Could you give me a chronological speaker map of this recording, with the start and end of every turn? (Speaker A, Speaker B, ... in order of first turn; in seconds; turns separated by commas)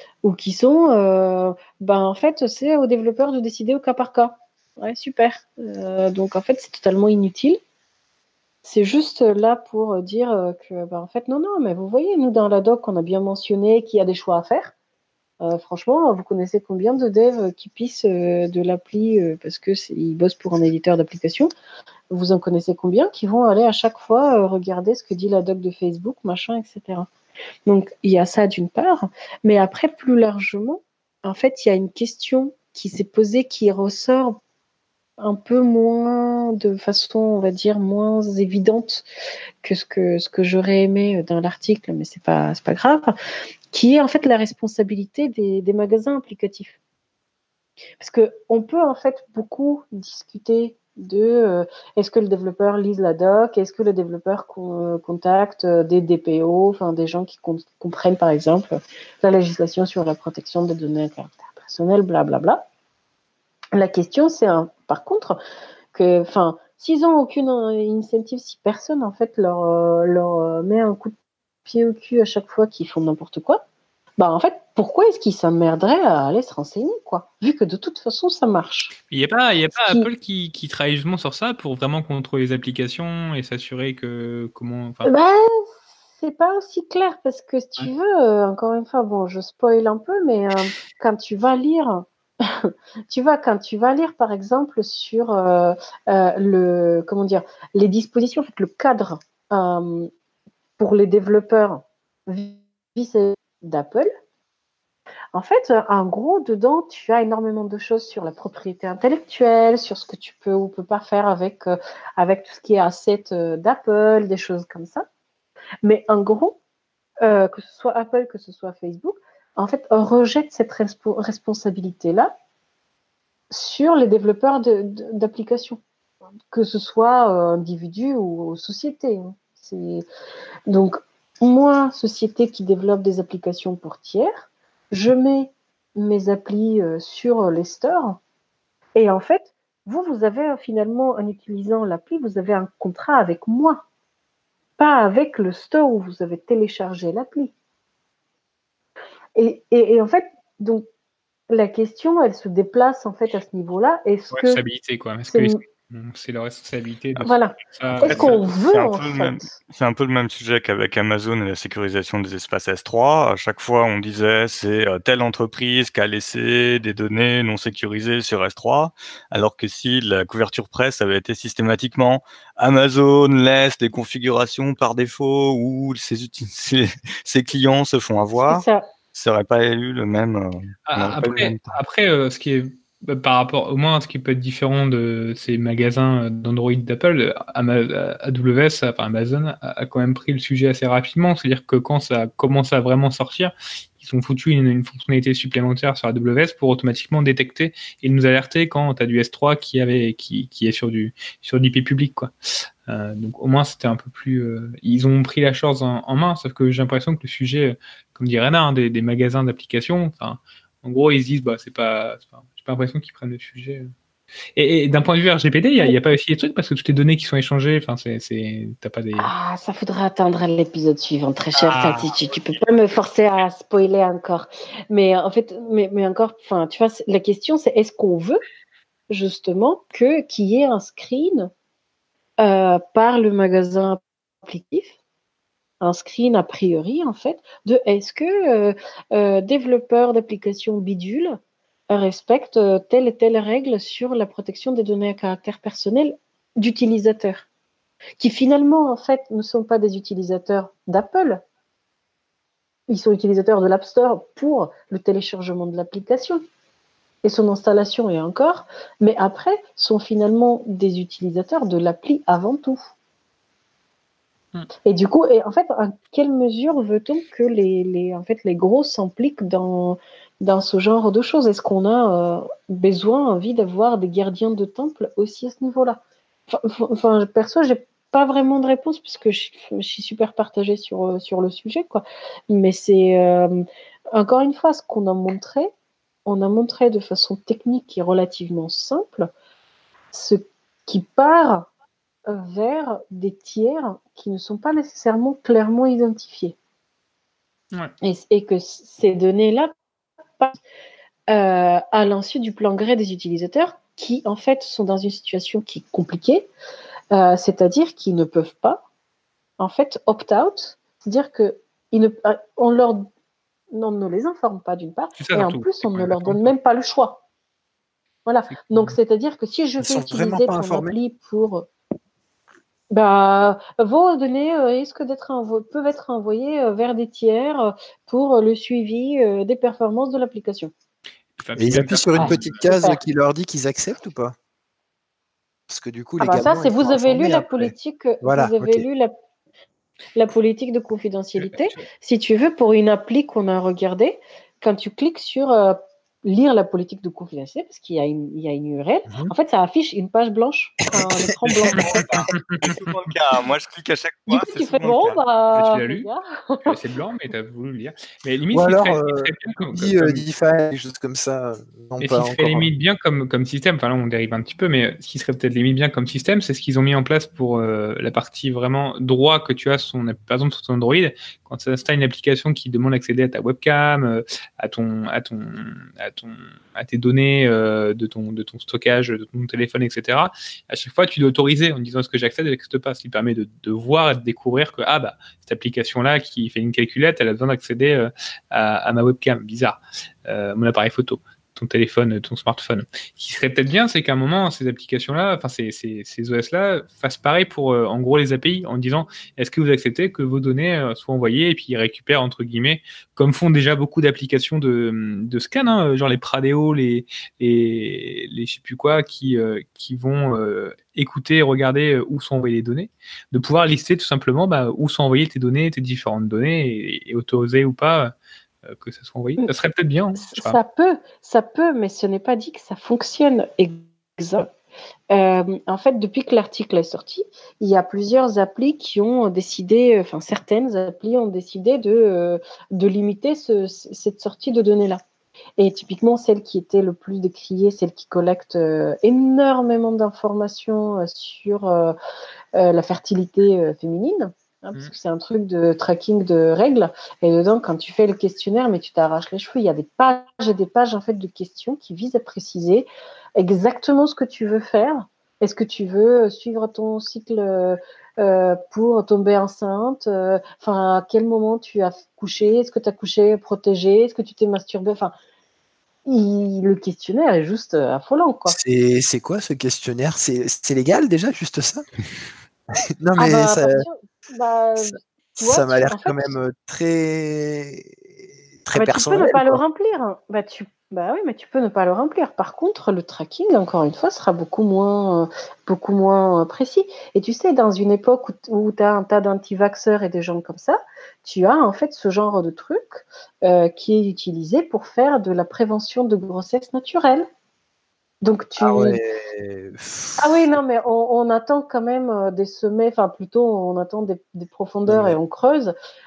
Speaker A: 0.2-7.6, Speaker A: 8.6-14.7, Speaker A: 15.4-21.5, Speaker A: 22.1-27.1, Speaker A: 27.6-34.4, Speaker A: 35.2-39.0, Speaker A: 39.6-43.1, Speaker A: 43.7-46.8, Speaker A: 48.0-62.6, Speaker A: 63.7-65.4, Speaker A: 65.9-73.6, Speaker A: 74.2-78.9, Speaker B: 79.1-85.1, Speaker A: 79.7-80.1, Speaker A: 85.0-100.1, Speaker A: 100.8-104.1, Speaker A: 105.3-115.0, Speaker A: 115.8-116.6, Speaker A: 117.2-122.3, Speaker A: 123.5-125.8, Speaker A: 126.5-130.0, Speaker A: 130.7-138.2, Speaker A: 138.9-143.8, Speaker A: 144.8-147.5, Speaker A: 149.3-150.8, Speaker A: 151.5-154.6, Speaker B: 154.3-158.4, Speaker A: 155.3-155.6, Speaker A: 157.2-159.5, Speaker C: 158.0-181.8, Speaker A: 178.5-178.8, Speaker B: 180.9-202.3, Speaker B: 202.9-213.9, Speaker B: 214.6-219.3, Speaker A: 219.2-228.4, Speaker B: 221.6-222.1, Speaker A: 229.1-231.5, Speaker A: 232.4-234.9, Speaker A: 235.8-247.4, Speaker A: 248.2-251.4, Speaker A: 252.9-256.4, Speaker A: 257.2-262.8, Speaker A: 264.8-285.7, Speaker A: 286.2-289.3, Speaker A: 290.1-291.7, Speaker A: 292.3-296.6, Speaker A: 298.0-299.7, Speaker A: 301.3-306.5, Speaker A: 307.1-308.8, Speaker A: 309.6-313.1, Speaker A: 313.7-317.2, Speaker B: 315.2-316.5, Speaker A: 318.2-321.7, Speaker B: 318.5-318.9, Speaker D: 319.8-320.9, Speaker A: 322.9-330.7, Speaker B: 331.4-332.6, Speaker D: 331.6-334.4, Speaker A: 332.1-333.0, Speaker D: 335.7-338.9, Speaker A: 336.2-339.1, Speaker A: 340.1-352.1, Speaker B: 341.4-341.8, Speaker C: 351.5-355.2, Speaker B: 351.7-352.9, Speaker A: 354.3-356.8, Speaker B: 355.5-356.1, Speaker B: 356.6-360.2, Speaker D: 358.5-362.7, Speaker B: 362.0-418.1, Speaker B: 418.7-420.6, Speaker A: 420.2-424.5, Speaker A: 425.1-435.0, Speaker A: 435.6-441.9, Speaker A: 442.5-465.1, Speaker A: 466.1-468.6, Speaker D: 468.5-471.9, Speaker D: 473.0-473.9, Speaker A: 473.2-476.4, Speaker D: 474.8-478.1, Speaker D: 478.6-479.6, Speaker A: 478.8-497.3, Speaker A: 498.2-499.0, Speaker D: 498.6-500.5, Speaker A: 500.2-505.7, Speaker D: 504.9-505.2